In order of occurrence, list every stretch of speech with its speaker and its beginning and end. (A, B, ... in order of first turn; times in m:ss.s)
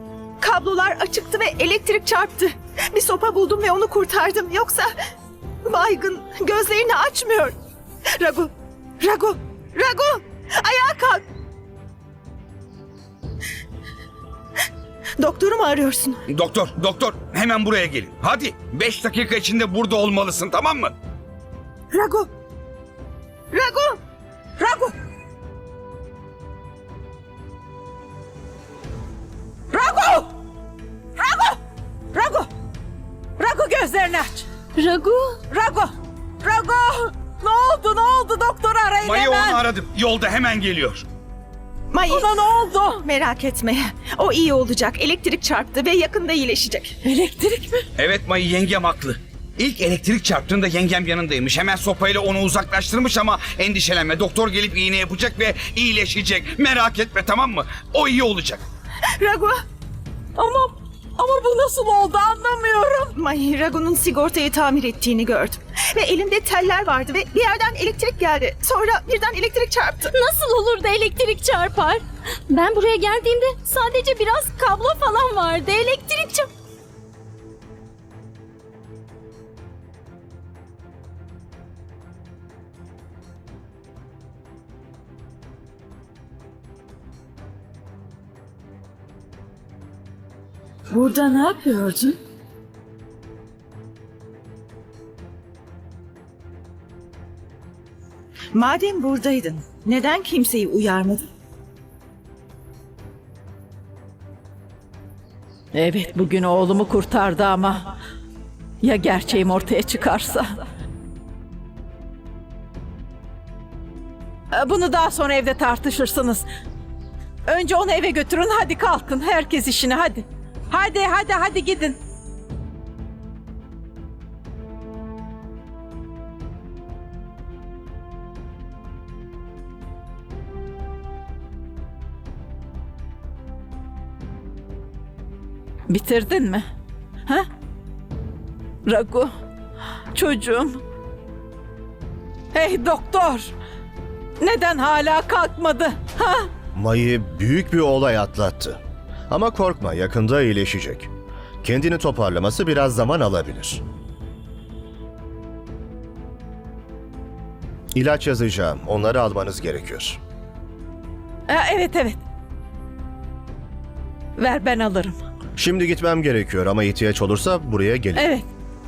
0:00.4-0:04.9 A
0:05.6-0:07.5 A
0:08.2-0:11.2 A
0:15.2-0:16.2 A
0:16.3-0:20.9 B
0:21.9-0:22.3 A
0:23.5-0:24.0 A
0:24.6-0:24.9 C
0:29.7-0:30.3 C
0:31.2-0:31.6 C
0:32.1-0:32.5 C
0:33.4-0:34.5 C
0:34.7-0:35.4 D
0:35.4-0:35.9 C
0:36.4-0:39.6 C
0:39.0-0:41.0 B
0:41.9-0:42.3 A
0:42.1-0:43.0 C
0:43.0-0:47.0 A
0:47.0-0:47.8 C
0:48.0-0:58.6 B
0:59.2-0:59.6 A
1:00.4-1:03.1 C
1:03.1-1:10.1 A
1:10.1-1:16.5 D
1:30.9-1:32.2 A
1:38.5-1:41.3 A
1:45.7-1:47.9 C
1:48.8-1:50.6 C
1:54.5-1:56.4 C
1:57.5-2:02.0 C
2:15.9-2:16.6 C
2:18.8-2:19.3 C
2:20.1-2:20.8 C
2:22.5-2:23.5 C
2:24.4-2:26.5 C
2:26.7-2:31.1 E
2:31.6-2:33.8 E
2:37.9-2:40.2 E
2:41.5-2:42.2 C
2:44.4-2:45.2 C
2:45.6-2:48.3 E
2:48.1-2:48.4 C